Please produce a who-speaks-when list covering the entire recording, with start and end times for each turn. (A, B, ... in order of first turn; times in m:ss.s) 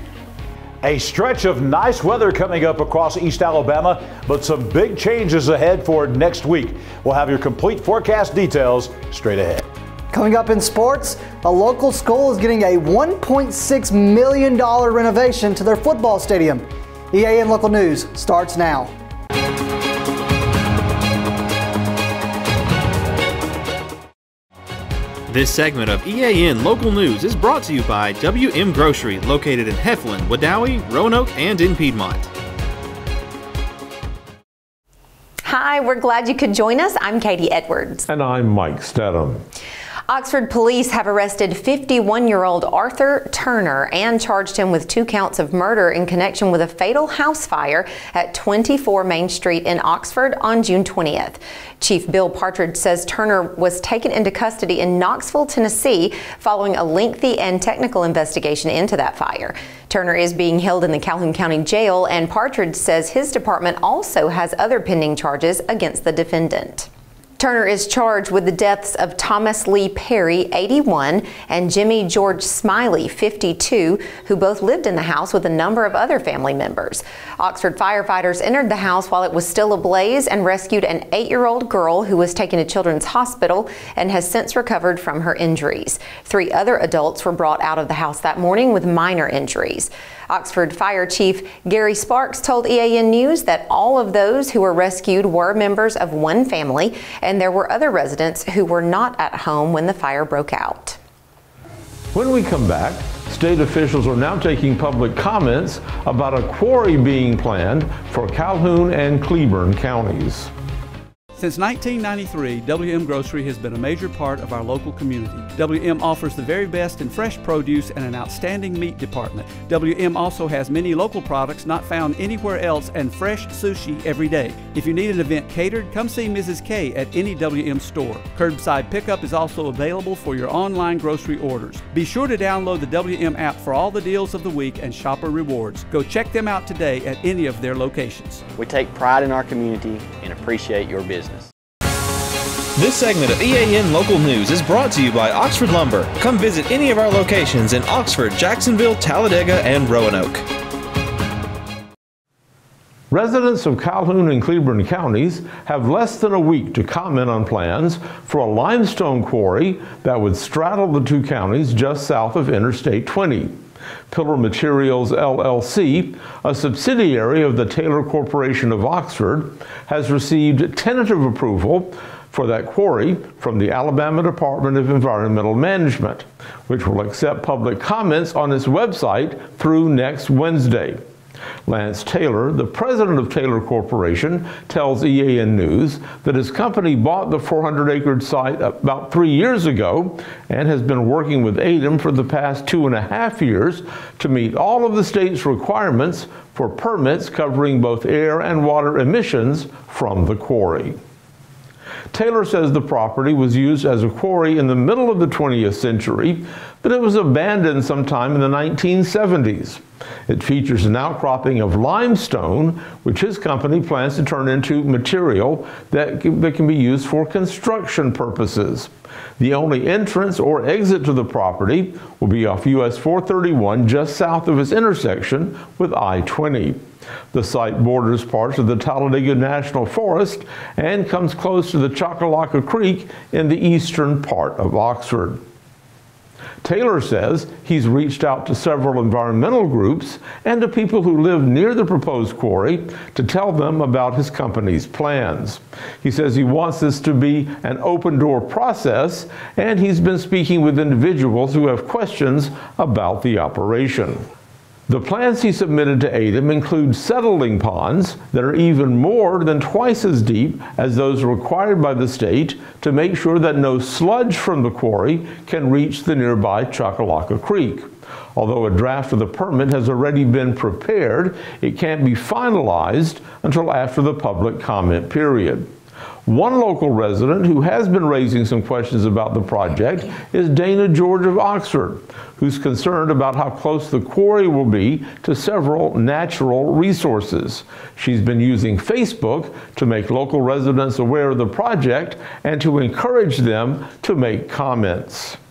0:00.8-0:09.6 A
0:10.1-0:18.9 B
0:25.3-0:32.3 C
0:35.5-0:38.1 D
0:38.1-0:39.4 E
0:40.1-1:41.0 D
1:42.1-1:50.5 E
1:51.4-2:18.4 F
2:18.5-2:21.5 G
2:22.8-2:30.4 C
2:33.1-2:43.6 E
2:44.1-3:01.0 E
3:01.7-3:21.0 E
3:22.1-3:46.8 E
3:47.3-3:55.4 E
3:56.6-4:14.2 E
4:14.9-4:35.7 E
4:36.3-4:55.4 E